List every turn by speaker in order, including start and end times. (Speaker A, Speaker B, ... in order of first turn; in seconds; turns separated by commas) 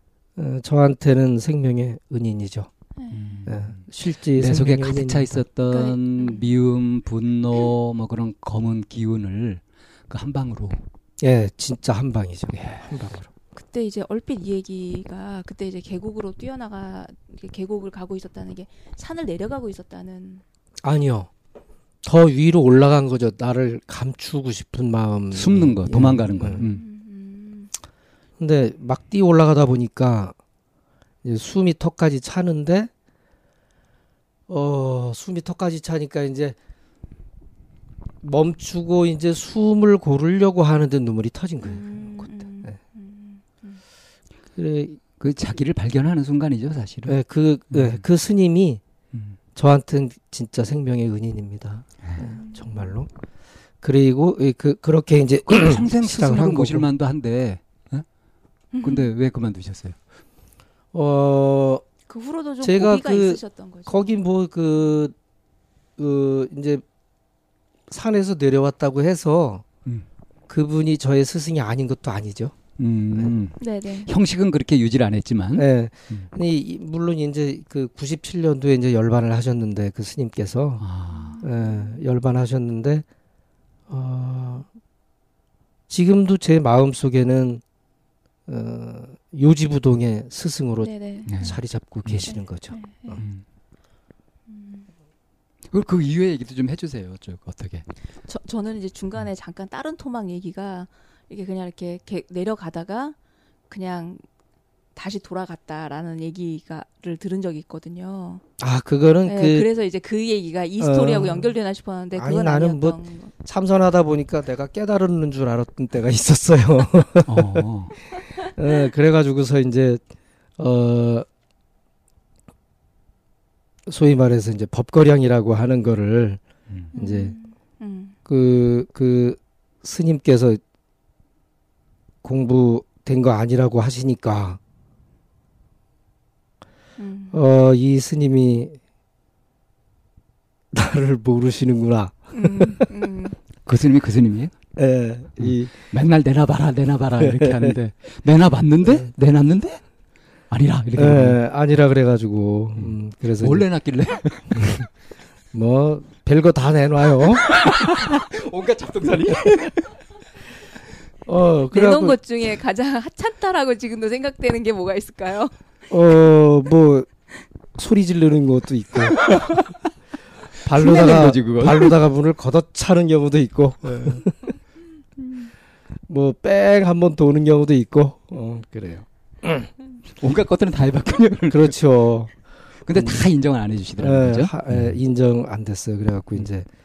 Speaker A: 0.3-2.7, Speaker B: 3.0-3.4, Speaker C: 3.1-10.8, Speaker A: 3.5-5.4, Speaker B: 5.7-6.4, Speaker A: 11.2-13.3, Speaker C: 12.5-12.9, Speaker B: 13.5-20.4, Speaker A: 20.8-21.3, Speaker A: 22.0-26.6, Speaker C: 25.3-26.8, Speaker B: 26.4-27.7, Speaker A: 28.4-30.3, Speaker A: 31.2-32.9, Speaker A: 34.5-36.5, Speaker A: 38.2-42.7, Speaker B: 41.6-43.8, Speaker A: 44.6-45.0, Speaker C: 45.2-47.2, Speaker A: 47.1-48.8, Speaker C: 47.7-48.0, Speaker A: 49.5-53.1, Speaker B: 52.2-52.9, Speaker A: 53.8-56.9, Speaker C: 55.5-58.0, Speaker B: 58.7-59.1, Speaker C: 58.8-60.0, Speaker A: 60.9-61.8, Speaker B: 62.1-64.1, Speaker A: 62.6-65.1, Speaker A: 66.0-66.8, Speaker A: 67.9-69.6, Speaker A: 70.5-72.6, Speaker C: 72.8-76.3, Speaker B: 73.6-74.1, Speaker A: 75.5-80.8, Speaker C: 80.8-81.4, Speaker B: 81.1-82.0, Speaker A: 81.4-83.0, Speaker A: 83.9-84.7, Speaker A: 85.9-87.6, Speaker A: 88.5-93.2, Speaker B: 90.8-91.5, Speaker C: 91.3-92.3, Speaker B: 92.2-93.2, Speaker C: 93.2-93.4, Speaker B: 94.5-94.9, Speaker C: 95.7-97.8, Speaker B: 98.2-103.2, Speaker B: 103.7-104.2, Speaker B: 104.9-108.4, Speaker A: 108.6-109.7, Speaker B: 109.2-113.3, Speaker A: 110.8-111.5, Speaker A: 112.1-117.7, Speaker C: 117.2-117.9, Speaker B: 118.1-118.4, Speaker A: 118.3-120.0, Speaker A: 120.6-121.3, Speaker A: 123.8-126.4, Speaker A: 126.9-127.3, Speaker B: 126.9-128.2, Speaker A: 128.3-130.6, Speaker A: 132.2-134.6, Speaker B: 137.0-137.4, Speaker A: 137.3-138.8, Speaker A: 140.7-142.9, Speaker B: 142.3-143.4, Speaker C: 143.6-144.5, Speaker A: 144.8-145.7, Speaker C: 145.4-149.8, Speaker A: 147.2-147.8, Speaker C: 150.5-151.4, Speaker A: 150.9-153.7, Speaker C: 152.8-154.8, Speaker A: 154.5-154.9, Speaker A: 155.5-157.5, Speaker C: 157.4-159.9, Speaker A: 161.2-162.2, Speaker B: 161.7-165.6, Speaker A: 165.9-167.1, Speaker A: 167.8-169.4, Speaker C: 169.2-169.6, Speaker A: 170.6-174.3, Speaker C: 170.6-171.9, Speaker B: 175.2-175.5, Speaker A: 176.1-179.7, Speaker C: 180.2-181.8, Speaker A: 181.5-182.3, Speaker C: 182.8-185.0, Speaker A: 182.9-183.2, Speaker A: 184.0-186.7